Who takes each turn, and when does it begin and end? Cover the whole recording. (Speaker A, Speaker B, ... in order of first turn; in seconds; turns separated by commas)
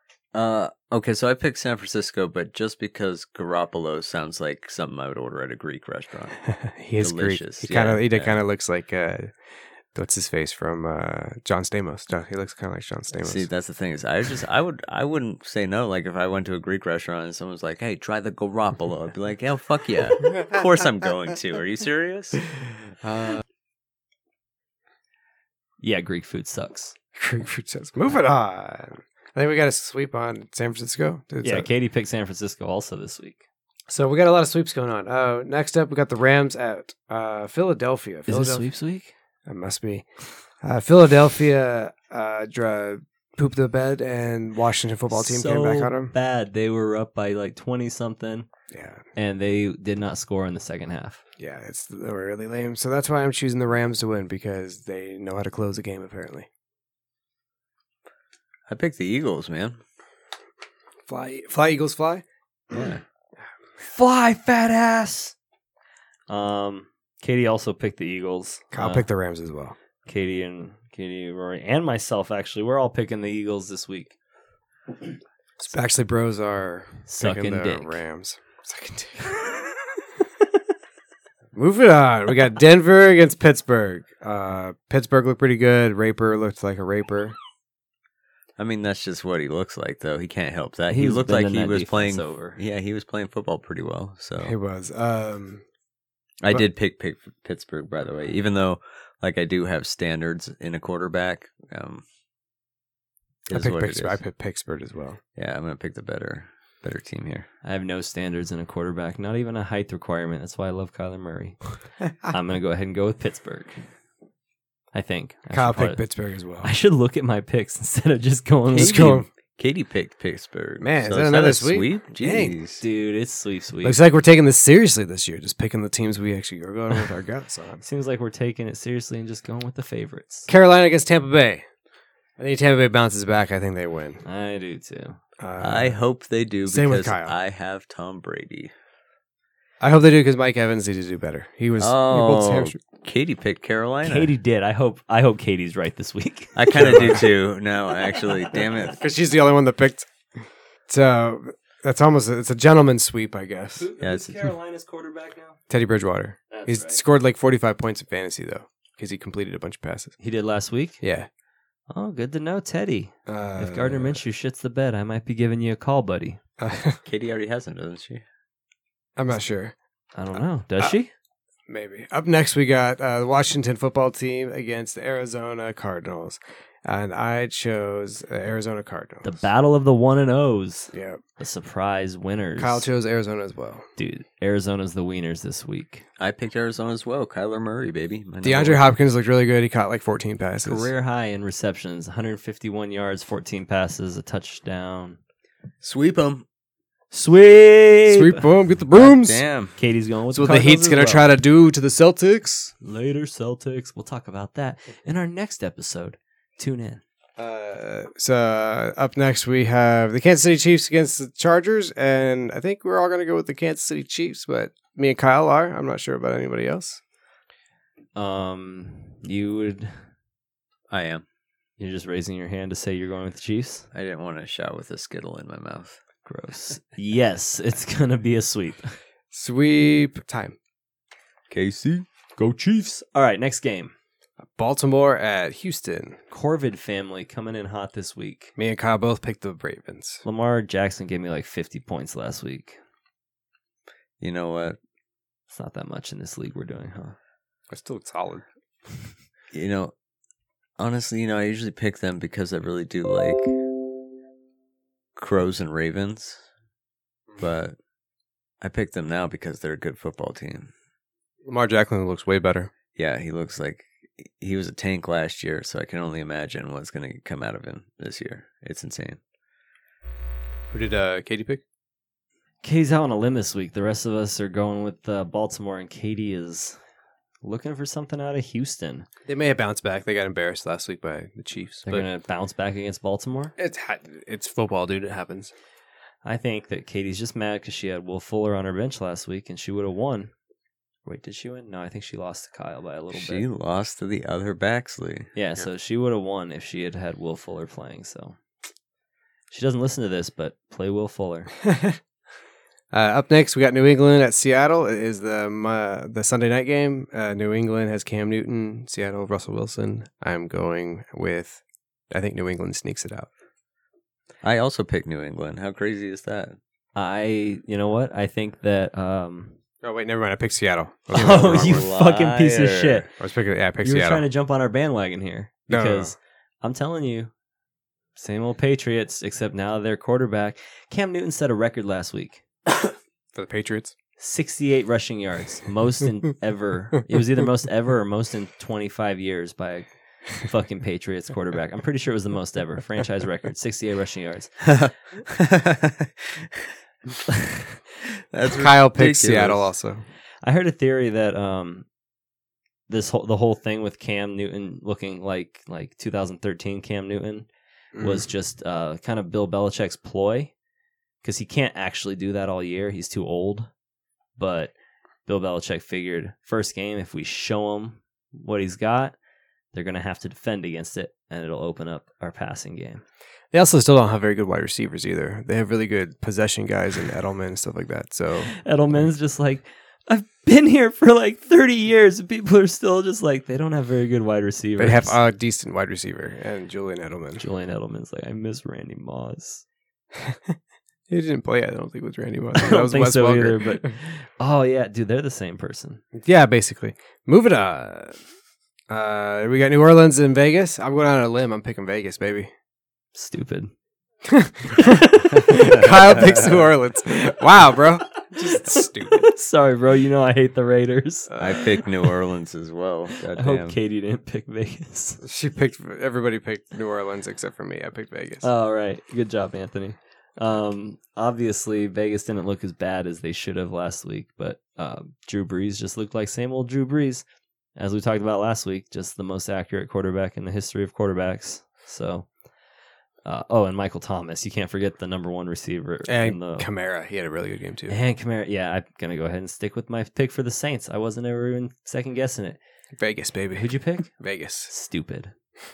Speaker A: 0.3-6.4, Speaker B: 6.6-9.3, Speaker A: 7.0-8.4, Speaker B: 9.9-13.5, Speaker A: 13.2-22.5, Speaker B: 23.0-23.4, Speaker C: 25.8-26.9, Speaker B: 27.1-31.7, Speaker C: 31.4-33.4, Speaker B: 33.9-38.6, Speaker C: 38.3-39.1, Speaker B: 39.5-40.0, Speaker B: 40.6-46.1, Speaker C: 45.1-48.5, Speaker B: 48.7-49.0, Speaker C: 49.1-51.2, Speaker B: 51.4-56.5, Speaker A: 58.7-59.8, Speaker B: 61.1-62.8, Speaker A: 62.7-63.0, Speaker C: 63.8-65.3, Speaker C: 66.3-69.0, Speaker B: 68.7-69.8, Speaker C: 70.0-74.1, Speaker B: 75.6-79.6, Speaker C: 77.1-78.0, Speaker B: 81.5-87.3, Speaker A: 88.6-94.5, Speaker C: 90.9-92.6, Speaker B: 94.4-95.6, Speaker A: 96.4-102.0, Speaker B: 103.5-105.2, Speaker A: 103.5-104.2, Speaker A: 105.3-107.5, Speaker C: 107.6-111.6, Speaker C: 112.2-113.8, Speaker C: 114.9-116.0, Speaker B: 115.5-116.7, Speaker C: 116.6-119.2, Speaker B: 118.7-119.3, Speaker A: 118.7-122.8, Speaker B: 120.8-122.5, Speaker C: 122.8-124.0, Speaker B: 123.8-127.8, Speaker C: 127.8-130.5, Speaker B: 130.5-131.6, Speaker B: 132.4-134.2, Speaker C: 134.2-135.2, Speaker B: 135.4-136.0, Speaker A: 135.6-138.7, Speaker B: 136.7-137.3, Speaker B: 139.8-142.8, Speaker A: 141.8-144.3, Speaker C: 144.0-147.2, Speaker A: 146.6-149.0, Speaker B: 146.7-147.2, Speaker B: 148.9-150.1, Speaker B: 150.9-153.9, Speaker C: 153.8-155.6, Speaker A: 154.0-154.5, Speaker B: 155.7-160.1, Speaker C: 156.5-157.0, Speaker C: 160.2-161.0, Speaker B: 161.0-161.3, Speaker C: 161.9-166.4, Speaker B: 163.3-164.2, Speaker B: 166.6-167.0, Speaker A: 167.1-168.2, Speaker B: 169.2-169.7, Speaker C: 170.1-171.1, Speaker B: 171.7-179.4, Speaker C: 179.2-182.9, Speaker B: 180.9-181.2, Speaker B: 182.6-183.9, Speaker C: 184.0-186.0, Speaker A: 186.2-188.9, Speaker B: 188.4-190.9, Speaker C: 190.6-195.2, Speaker A: 195.8-196.4, Speaker C: 197.1-198.5, Speaker B: 198.1-199.4, Speaker A: 198.9-199.8, Speaker C: 199.8-201.3, Speaker B: 200.3-202.7, Speaker C: 202.8-207.0, Speaker B: 207.4-217.0, Speaker C: 218.1-219.9, Speaker A: 220.9-221.2, Speaker C: 221.8-223.9, Speaker A: 223.9-226.0, Speaker C: 226.2-228.9, Speaker B: 229.3-230.6, Speaker A: 231.5-232.1, Speaker C: 232.4-233.9, Speaker B: 234.4-236.2, Speaker C: 236.3-238.5, Speaker B: 238.6-240.2, Speaker C: 240.2-242.8, Speaker A: 244.2-244.8, Speaker C: 245.5-247.2, Speaker B: 247.7-248.4, Speaker A: 249.5-249.9, Speaker A: 250.8-253.5, Speaker A: 255.2-256.4, Speaker A: 257.4-257.8, Speaker A: 258.6-260.7, Speaker B: 261.4-262.7, Speaker A: 262.9-269.2, Speaker B: 270.7-271.6, Speaker C: 272.6-276.8, Speaker C: 277.4-279.1, Speaker B: 279.3-282.1, Speaker C: 281.9-283.5, Speaker B: 283.6-285.5, Speaker C: 286.2-290.3, Speaker C: 291.1-293.4, Speaker A: 293.1-295.3, Speaker C: 295.3-298.4, Speaker C: 299.5-301.5, Speaker B: 301.6-302.0, Speaker B: 302.9-313.3, Speaker A: 314.4-316.6, Speaker C: 316.9-319.6, Speaker B: 319.8-321.9, Speaker C: 321.1-323.1, Speaker A: 321.1-323.1, Speaker B: 323.2-324.2, Speaker C: 323.8-327.3, Speaker B: 325.7-326.1, Speaker C: 328.1-332.4, Speaker B: 333.3-333.9, Speaker C: 334.2-344.6, Speaker A: 344.6-346.6, Speaker A: 348.3-349.7, Speaker B: 348.5-350.0, Speaker C: 350.4-351.9, Speaker C: 352.9-357.5, Speaker B: 357.9-358.3, Speaker C: 358.0-360.5, Speaker C: 361.2-363.7, Speaker C: 364.4-364.7, Speaker C: 365.2-369.1, Speaker C: 369.7-373.0, Speaker B: 373.5-378.5, Speaker C: 378.5-385.2, Speaker B: 384.8-387.4, Speaker C: 387.4-389.6, Speaker B: 390.2-390.5, Speaker B: 391.1-393.9, Speaker C: 392.5-396.0, Speaker B: 396.2-398.2, Speaker B: 398.9-402.5, Speaker C: 403.1-403.7, Speaker B: 404.2-409.2, Speaker C: 404.7-405.6, Speaker A: 406.3-406.5, Speaker C: 408.2-411.4, Speaker B: 411.3-411.7, Speaker A: 411.4-413.8, Speaker C: 413.2-415.2, Speaker B: 415.2-418.5, Speaker C: 418.4-427.2, Speaker C: 427.8-432.3, Speaker C: 433.2-436.7, Speaker B: 436.1-438.0, Speaker C: 437.9-442.6, Speaker B: 443.0-444.7, Speaker C: 443.5-444.1, Speaker C: 444.7-445.3